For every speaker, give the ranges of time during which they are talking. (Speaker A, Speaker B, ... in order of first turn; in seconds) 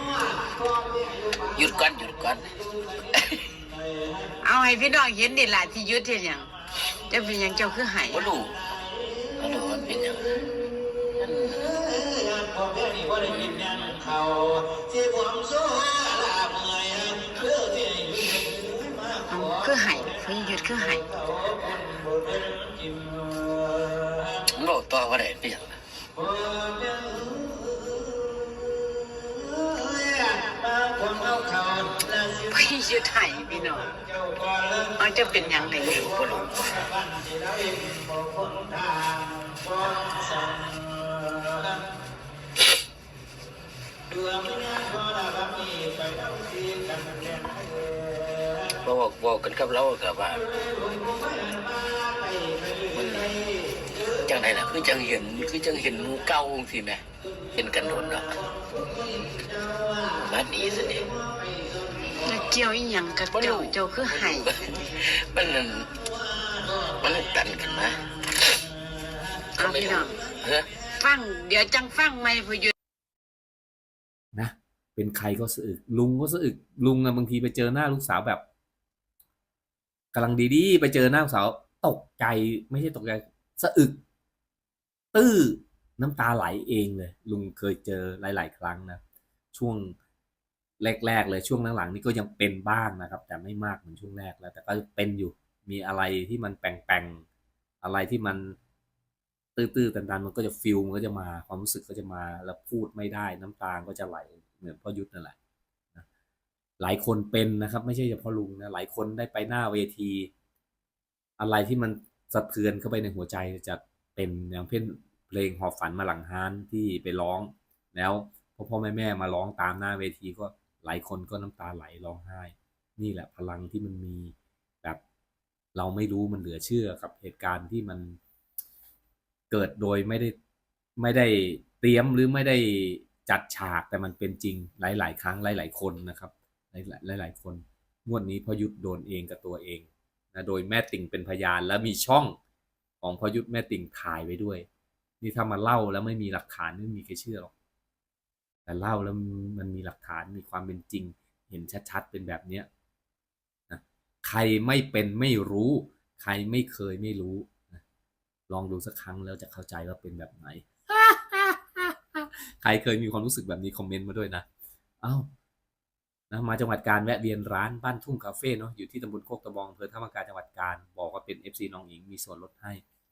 Speaker A: 1.5-2.5, 3.1-3.4, 8.1-8.6, 9.3-10.4, 11.2-11.7, 13.2-14.1, 24.4-25.8, 35.8-36.9, 48.8-50.5, 52.9-53.4, 54.2-58.4, 60.1-61.1, 63.3-66.0, 67.0-68.0, 69.6-70.7
Speaker B: 4.4-6.5, 7.1-8.3, 19.3-21.1, 32.5-33.9, 34.9-36.0, 62.2-64.5, 69.6-70.2, 71.0-72.7
Speaker C: 74.3-78.4, 80.1-84.0, 85.1-89.0, 89.5-90.0, 90.8-97.2, 97.8-98.6, 99.5-105.3, 106.8-110.3, 111.4-125.0, 125.7-128.2, 129.5-130.3, 131.0-142.4, 143.0-144.7, 145.2-147.5, 148.7-152.7, 153.7-157.8, 158.5-164.4, 165.0-165.3, 166.3-172.8